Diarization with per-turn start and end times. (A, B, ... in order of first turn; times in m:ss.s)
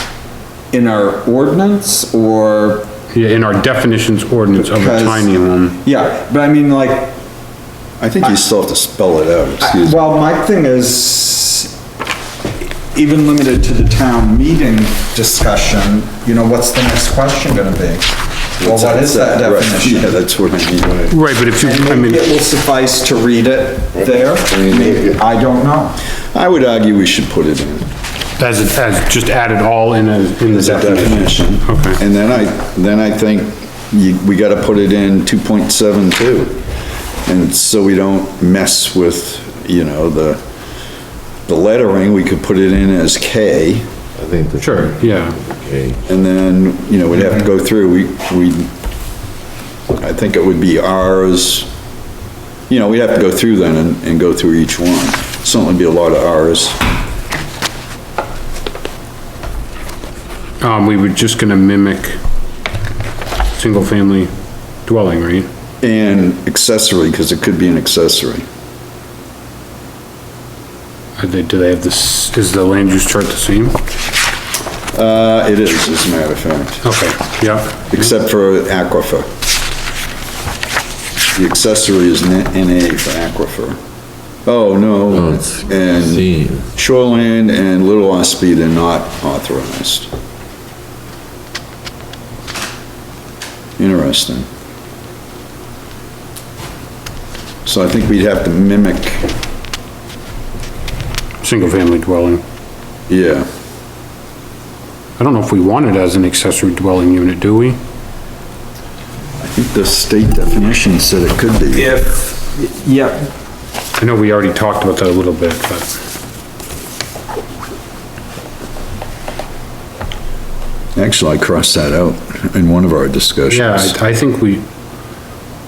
0:00.7-0:02.9 A
0:03.1-0:05.8 B
0:04.6-0:05.3 A
0:05.8-0:07.1 A
0:08.0-0:10.0 C
0:09.6-0:11.7 A
0:12.9-0:20.2 A
0:18.6-0:21.1 C
0:21.1-0:22.3 B
0:21.5-0:26.0 A
0:24.0-0:25.2 D
0:26.3-0:27.9 C
0:28.4-0:32.0 B
0:30.5-0:36.6 C
0:37.3-0:40.4 C
0:41.5-0:43.9 C
0:44.2-0:46.0 D
0:44.6-0:45.4 B
0:46.1-0:48.7 C
0:49.9-0:51.7 C
0:52.7-0:56.8 C
1:00.6-1:02.2 B
1:03.6-1:04.3 B
1:04.8-1:05.5 B
1:05.8-1:08.4 C
1:11.2-1:13.8 B
1:14.9-1:16.8 C
1:16.8-1:17.9 B
1:17.9-1:19.3 C
1:21.4-1:23.8 C
1:24.4-1:30.1 C
1:25.1-1:26.7 D
1:33.8-1:34.5 C
1:37.6-1:39.3 C
1:41.4-1:42.4 B
1:43.1-1:43.5 C
1:45.2-1:47.8 B
1:49.4-1:52.0 C
1:51.8-1:53.3 A
1:54.0-1:55.9 B
2:01.0-2:04.0 C
2:03.5-2:04.7 B